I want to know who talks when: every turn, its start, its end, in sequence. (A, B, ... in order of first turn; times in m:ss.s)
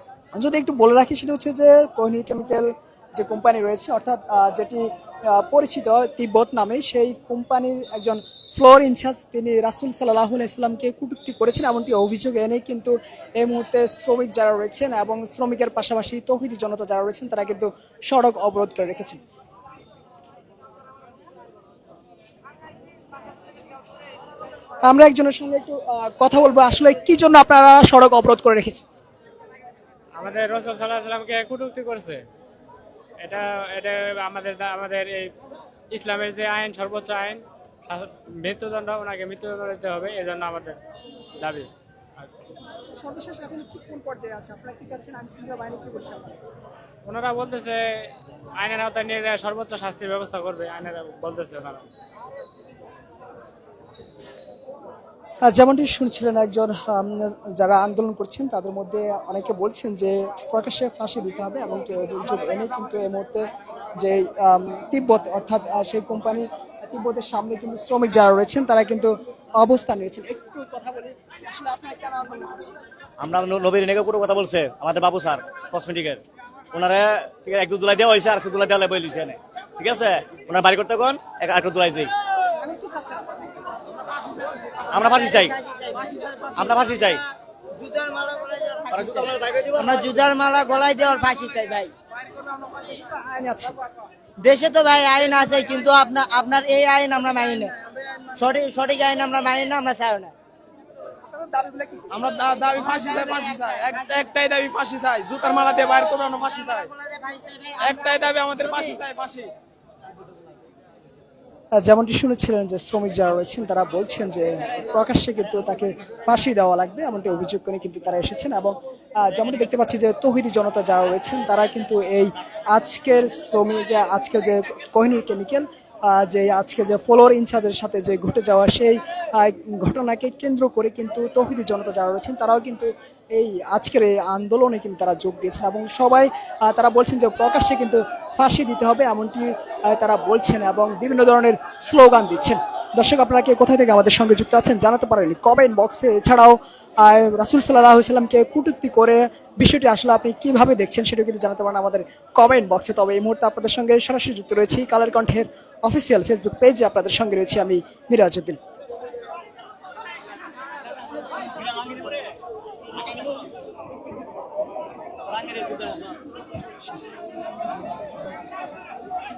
0:00.3-0:19.2 A
0:24.8-0:28.8 A
0:30.2-0:32.2 B
0:33.2-0:35.3 B
0:35.9-0:40.8 B
0:41.4-0:41.7 B
0:43.0-0:46.4 A
0:47.1-0:47.8 B
0:48.6-0:51.8 B
0:55.4-1:03.4 A
1:04.0-1:12.8 A
1:13.2-1:16.2 C
1:16.7-1:22.1 C
1:22.6-1:23.4 A
1:24.9-1:25.5 C
1:25.2-1:26.5 D
1:26.5-1:27.2 C
1:27.8-1:29.2 D
1:28.9-1:30.3 C
1:29.8-1:31.9 D
1:32.7-1:33.8 A
1:34.4-1:37.7 D
1:38.3-1:40.3 D
1:41.2-1:42.2 A
1:42.2-1:46.9 E
1:42.8-1:44.2 D
1:46.6-1:49.0 D
1:47.8-1:49.5 E
1:51.8-2:38.6 A
2:41.6-2:42.2 C
2:45.3-2:46.1 C